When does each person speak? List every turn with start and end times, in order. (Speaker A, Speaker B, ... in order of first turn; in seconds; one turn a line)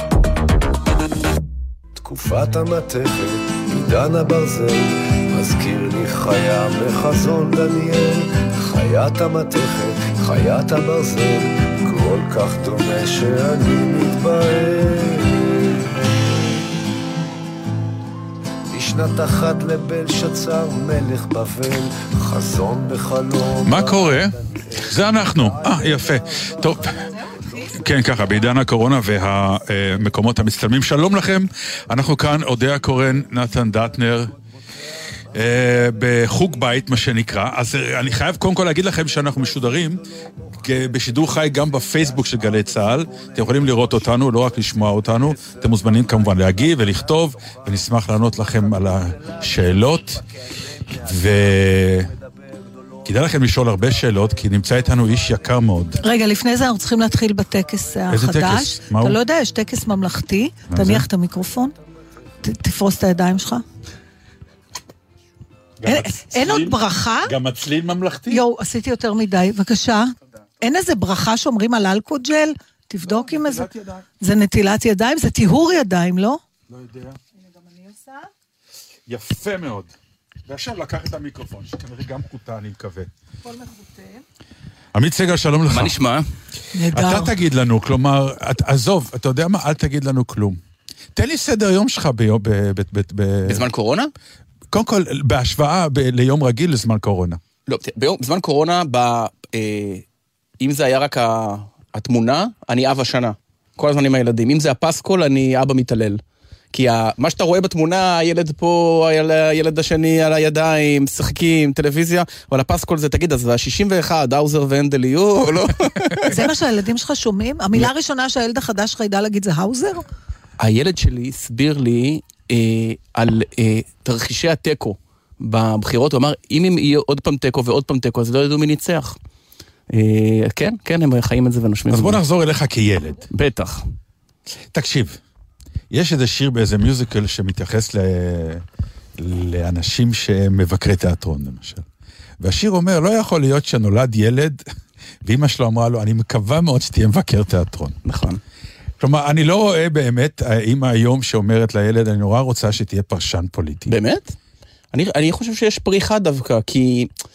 Speaker A: 2.0-15.7
Speaker A: 18.7-27.0
Speaker B: 23.6-27.1
Speaker B: 27.7-34.4
Speaker B: 35.3-40.1
Speaker B: 40.6-50.2
Speaker B: 50.9-52.1
Speaker B: 53.0-56.0
Speaker C: 56.0-61.8
Speaker B: 58.1-59.2
Speaker B: 60.7-61.1
Speaker C: 62.4-63.6
Speaker B: 65.8-68.4
Speaker C: 65.8-67.3
Speaker C: 68.3-73.7
Speaker B: 73.0-74.0
Speaker C: 74.2-76.4
Speaker B: 76.7-77.2
Speaker C: 77.4-78.3
Speaker B: 79.1-79.9
Speaker B: 80.5-83.1
Speaker C: 83.5-84.2
Speaker B: 84.9-86.0
Speaker D: 85.7-86.2
Speaker C: 86.7-87.3
Speaker B: 86.9-90.6
Speaker B: 91.2-93.7
Speaker D: 93.5-94.1
Speaker B: 94.7-97.4
Speaker D: 97.7-100.0
Speaker D: 100.6-106.2
Speaker D: 106.7-116.5
Speaker C: 116.2-120.0
Speaker D: 120.6-129.2
Speaker D: 129.9-132.2
Speaker B: 131.9-133.3
Speaker D: 133.3-133.8
Speaker B: 134.7-135.2
Speaker B: 135.9-138.6
Speaker B: 139.2-141.9
Speaker B: 142.4-144.6
Speaker B: 145.2-148.0
Speaker D: 148.1-148.4
Speaker B: 149.0-153.9
Speaker D: 153.9-154.3
Speaker D: 154.9-157.1